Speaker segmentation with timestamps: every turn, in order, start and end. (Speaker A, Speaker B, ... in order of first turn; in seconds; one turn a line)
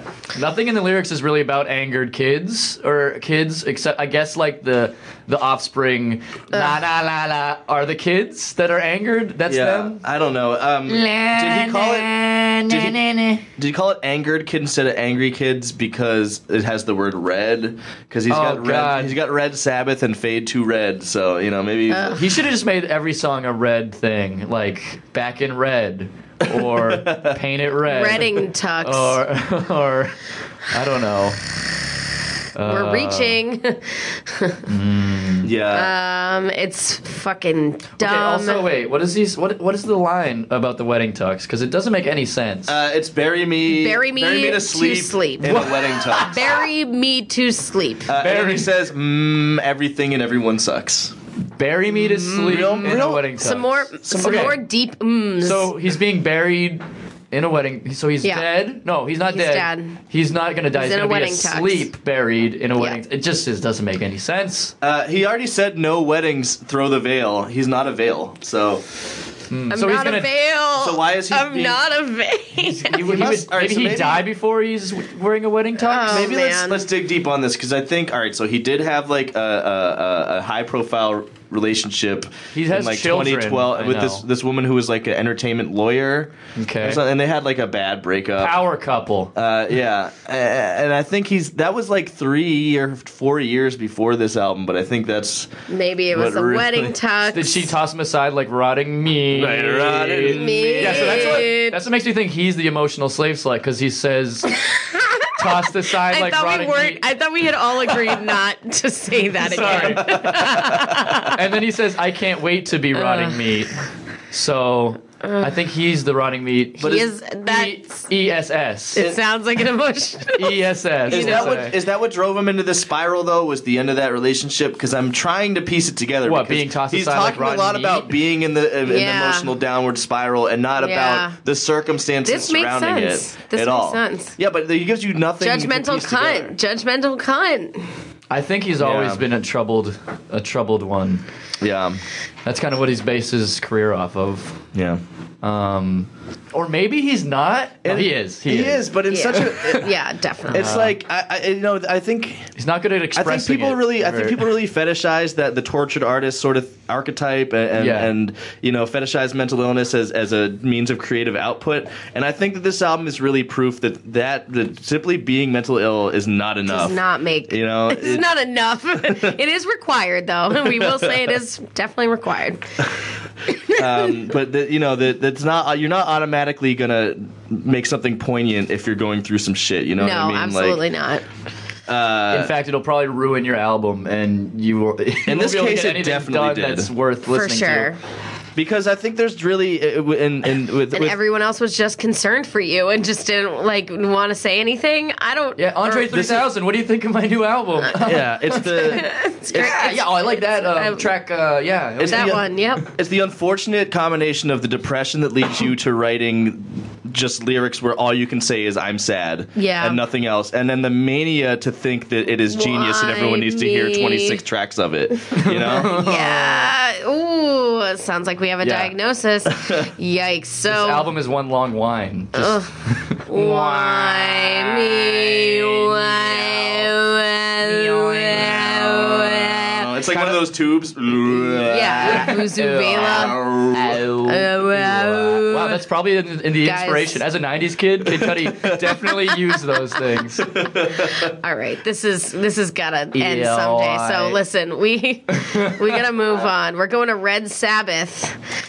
Speaker A: 0.3-10.0
Speaker B: 6.5-6.8
Speaker C: 9.5-12.1
Speaker A: 10.9-13.4
Speaker C: 12.7-13.0
Speaker C: 13.6-22.2
Speaker A: 18.3-19.1
Speaker B: 21.9-22.2
Speaker A: 22.1-31.5
Speaker C: 26.4-27.4
Speaker B: 27.9-29.2
Speaker A: 32.5-33.4
Speaker B: 32.6-34.6
Speaker A: 34.6-35.5
Speaker C: 35.4-35.9
Speaker B: 35.7-38.6
Speaker A: 38.0-42.8
Speaker C: 42.7-46.5
Speaker B: 43.6-48.1
Speaker A: 45.5-46.4
Speaker C: 48.1-51.1
Speaker A: 48.1-48.7
Speaker A: 51.6-54.6
Speaker B: 52.0-55.7
Speaker C: 52.4-53.3
Speaker C: 54.0-54.5
Speaker A: 55.4-64.7
Speaker B: 59.3-60.0
Speaker B: 60.7-61.9
Speaker C: 64.8-68.8
Speaker A: 69.5-70.3
Speaker B: 69.7-73.1
Speaker C: 70.8-71.8
Speaker A: 72.6-76.3
Speaker C: 73.0-74.2
Speaker B: 75.8-76.8
Speaker C: 76.1-88.6
Speaker A: 82.5-84.2
Speaker A: 86.5-87.0
Speaker A: 88.4-89.3
Speaker C: 89.3-95.5
Speaker B: 95.7-97.7
Speaker C: 96.1-96.9
Speaker A: 97.3-104.5
Speaker C: 99.3-101.5
Speaker B: 100.3-101.8
Speaker B: 104.5-111.4
Speaker A: 105.4-107.0
Speaker A: 109.4-113.7
Speaker C: 109.7-111.2
Speaker B: 112.9-113.4
Speaker A: 114.3-119.0
Speaker B: 115.2-115.5
Speaker B: 116.8-118.0
Speaker B: 119.0-121.6
Speaker A: 120.3-121.7
Speaker C: 121.1-136.5
Speaker A: 126.2-128.2
Speaker B: 128.8-129.5
Speaker B: 130.8-131.4
Speaker B: 132.2-134.3
Speaker B: 135.4-137.8
Speaker A: 138.3-141.2
Speaker C: 138.8-139.2
Speaker C: 141.6-142.0
Speaker A: 142.4-144.6
Speaker C: 144.7-145.0
Speaker A: 145.4-148.9
Speaker C: 147.8-149.9
Speaker B: 149.1-150.8
Speaker C: 150.5-152.5
Speaker A: 150.5-151.0
Speaker A: 152.6-154.5
Speaker C: 153.1-168.3
Speaker A: 157.7-158.1
Speaker B: 166.7-172.8
Speaker C: 169.0-169.3
Speaker C: 170.6-171.3
Speaker B: 173.5-174.1
Speaker C: 173.7-180.8
Speaker B: 180.0-181.2
Speaker C: 181.9-182.5
Speaker A: 182.3-187.9
Speaker C: 185.2-186.9
Speaker B: 187.3-188.0
Speaker C: 188.5-191.2
Speaker B: 190.9-196.1
Speaker A: 195.6-202.5
Speaker C: 196.1-196.5
Speaker C: 198.0-199.1
Speaker B: 198.5-201.1
Speaker C: 202.0-216.0
Speaker B: 202.1-202.8
Speaker B: 209.6-210.0
Speaker B: 212.5-214.4
Speaker A: 215.3-216.7
Speaker B: 215.7-221.1
Speaker A: 218.6-218.9
Speaker C: 219.6-219.8
Speaker A: 220.7-226.9
Speaker B: 222.3-229.9
Speaker A: 227.6-230.4
Speaker C: 229.6-232.4
Speaker B: 231.6-233.4
Speaker A: 231.8-240.5
Speaker C: 232.9-234.0
Speaker B: 234.2-235.8
Speaker B: 236.6-237.2
Speaker C: 238.1-238.9
Speaker C: 240.4-241.3
Speaker B: 241.0-248.4
Speaker A: 243.1-244.4
Speaker A: 245.3-246.0